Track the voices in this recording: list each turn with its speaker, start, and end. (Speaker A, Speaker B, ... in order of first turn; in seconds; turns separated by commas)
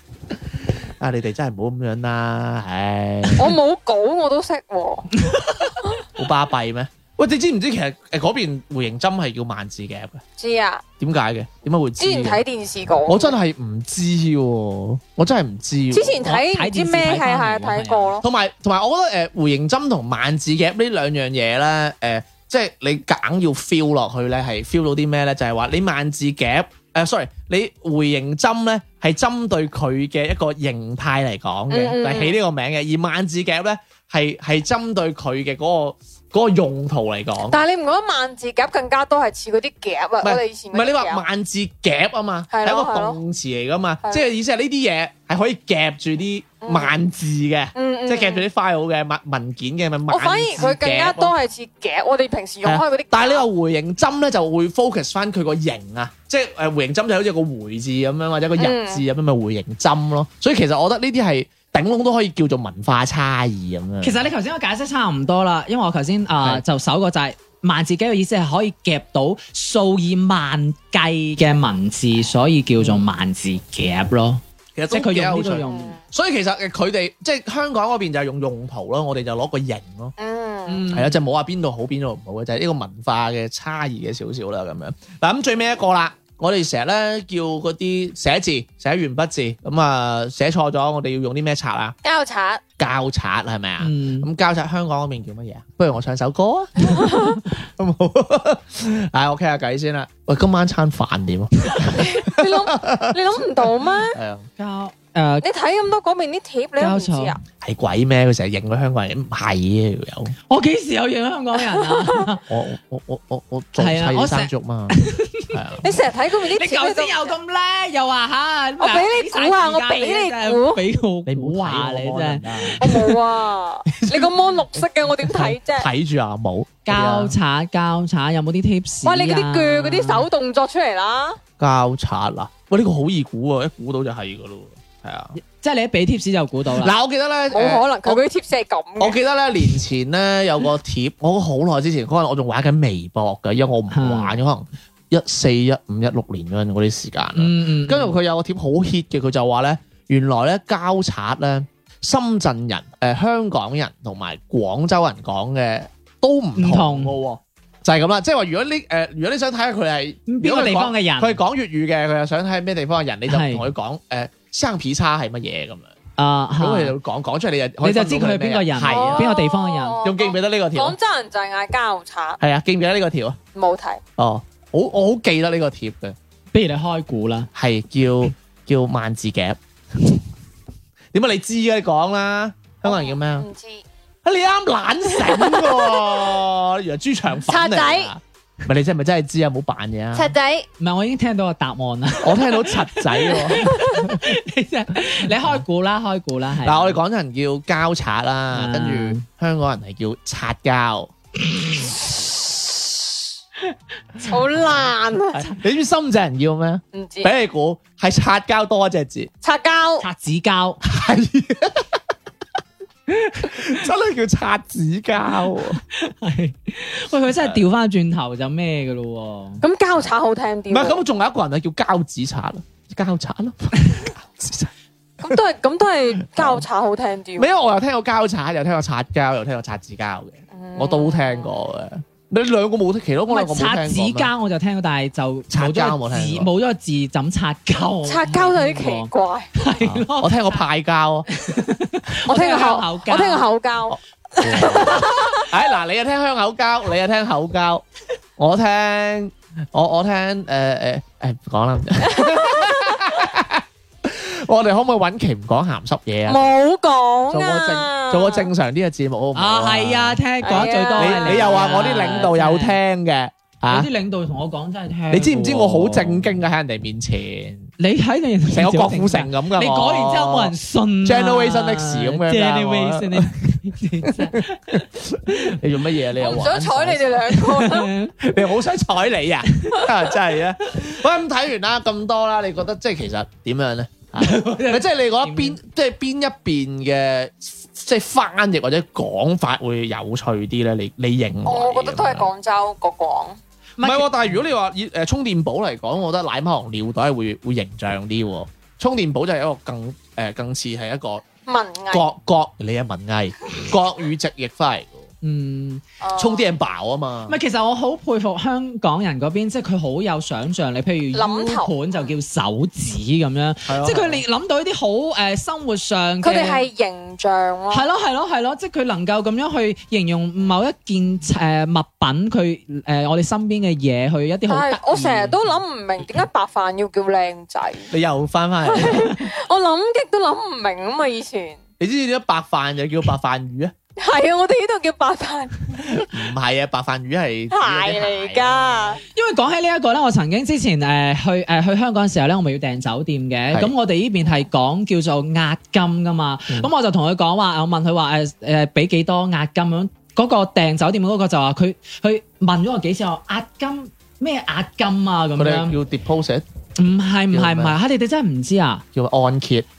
Speaker A: 1.0-3.5, Speaker B: 3.4-5.1, Speaker C: 5.2-5.7, Speaker A: 6.2-10.2, Speaker B: 10.4-10.8, Speaker A: 11.0-12.4, Speaker B: 12.0-13.4, Speaker A: 13.1-16.4, Speaker B: 15.9-18.3, Speaker C: 16.3-18.2, Speaker A: 18.2-37.6, Speaker B: 31.7-32.4, Speaker B: 37.5-41.2, Speaker A: 40.2-51.3, Speaker B: 42.5-43.2, Speaker B: 44.0-44.3, Speaker B: 46.6-47.0, Speaker B: 47.8-48.5, Speaker B: 50.1-53.5, Speaker A: 52.6-64.3, Speaker B: 58.6-59.0, Speaker C: 64.0-76.0, Speaker A: 72.8-73.0, Speaker A: 74.8-80.1, Speaker B: 75.7-76.0, Speaker B: 80.2-80.9, Speaker C: 80.7-81.2, Speaker A: 80.9-92.0, Speaker B: 92.0-92.6, Speaker A: 92.8-104.5, Speaker C: 93.8-94.3, Speaker B: 97.0-97.3, Speaker B: 102.0-104.2, Speaker C: 104.6-105.5, Speaker B: 105.4-107.4, Speaker C: 106.8-107.4, Speaker A: 107.6-110.3, Speaker C: 110.5-112.5, Speaker B: 111.8-112.0, Speaker A: 112.5-116.0, Speaker C: 113.8-115.6, Speaker B: 115.8-117.4, Speaker C: 116.5-122.9, Speaker B: 118.8-120.8, Speaker A: 121.3-123.0, Speaker B: 122.8-125.9, Speaker A: 123.9-127.4, Speaker C: 126.9-130.3, Speaker B: 129.0-131.4, Speaker A: 131.6-135.4, Speaker C: 135.4-136.9, Speaker A: 136.7-138.2, Speaker B: 137.5-139.2, Speaker A: 139.0-165.9, Speaker C: 143.9-144.4, Speaker C: 147.4-148.2, Speaker C: 156.6-157.1, Speaker C: 160.3-161.4, Speaker C: 163.3-163.7, Speaker C: 166.2-166.9, Speaker A: 166.6-169.3, Speaker C: 167.8-170.0, Speaker B: 168.8-172.4, Speaker A: 170.0-171.0, Speaker A: 172.4-173.4, Speaker B: 173.6-174.0, Speaker A: 174.2-176.2, Speaker C: 176.5-177.5, Speaker A: 177.6-180.2, Speaker A: 181.1-183.5, Speaker B: 182.8-183.8, Speaker A: 184.2-190.3, Speaker B: 187.5-188.1, Speaker B: 190.2-190.7, Speaker C: 190.8-197.0, Speaker A: 192.2-194.2, Speaker A: 196.6-201.1, Speaker C: 198.5-199.2, Speaker B: 204.2-205.4, Speaker A: 205.3-209.3, Speaker B: 206.9-207.3, Speaker B: 209.4-210.1, Speaker C: 210.0-210.8, Speaker A: 210.8-211.9, Speaker A: 213.4-215.8, Speaker C: 215.9-219.6, Speaker B: 219.6-221.0, Speaker A: 220.7-224.7, Speaker B: 225.2-227.5, Speaker A: 226.3-226.6, Speaker A: 227.4-234.3, Speaker B: 230.5-231.5, Speaker C: 233.3-240.6, Speaker A: 235.5-236.5, Speaker B: 238.1-239.5, Speaker A: 239.8-241.3, Speaker C: 241.3-243.5, Speaker B: 242.3-245.5, Speaker A: 243.9-247.8, Speaker C: 244.6-245.1, Speaker A: 248.4-256.5, Speaker B: 252.2-253.0, Speaker B: 256.3-258.5, Speaker A: 257.3-263.9, Speaker C: 259.4-262.8, Speaker B: 260.4-262.2, Speaker C: 263.7-266.4, Speaker A: 265.1-267.7, Speaker C: 267.8-275.7, Speaker A: 268.5-277.2, Speaker B: 276.2-277.9, Speaker C: 277.3-278.3, Speaker A: 278.2-292.3, Speaker C: 279.5-279.9, Speaker C: 284.2-285.6, Speaker B: 291.4-293.4, Speaker C: 293.8-294.4, Speaker A: 293.8-301.2, Speaker B: 301.5-302.1, Speaker A: 301.9-305.1, Speaker C: 305.2-305.8, Speaker B: 306.0-306.5, Speaker A: 306.2-307.4, Speaker C: 307.3-316.7, Speaker B: 311.1-312.1, Speaker A: 313.7-314.2, Speaker B: 316.2-317.9, Speaker C: 317.7-325.4, Speaker B: 324.5-327.9, Speaker A: 327.9-329.1, Speaker B: 328.7-331.6, Speaker C: 328.9-329.2, Speaker A: 331.8-333.7, Speaker B: 334.0-335.6, Speaker A: 335.9-339.0, Speaker B: 337.5-339.0, Speaker C: 339.1-355.8, Speaker A: 355.4-356.5, Speaker C: 356.8-358.8, Speaker A: 357.3-357.8, Speaker A: 358.9-359.7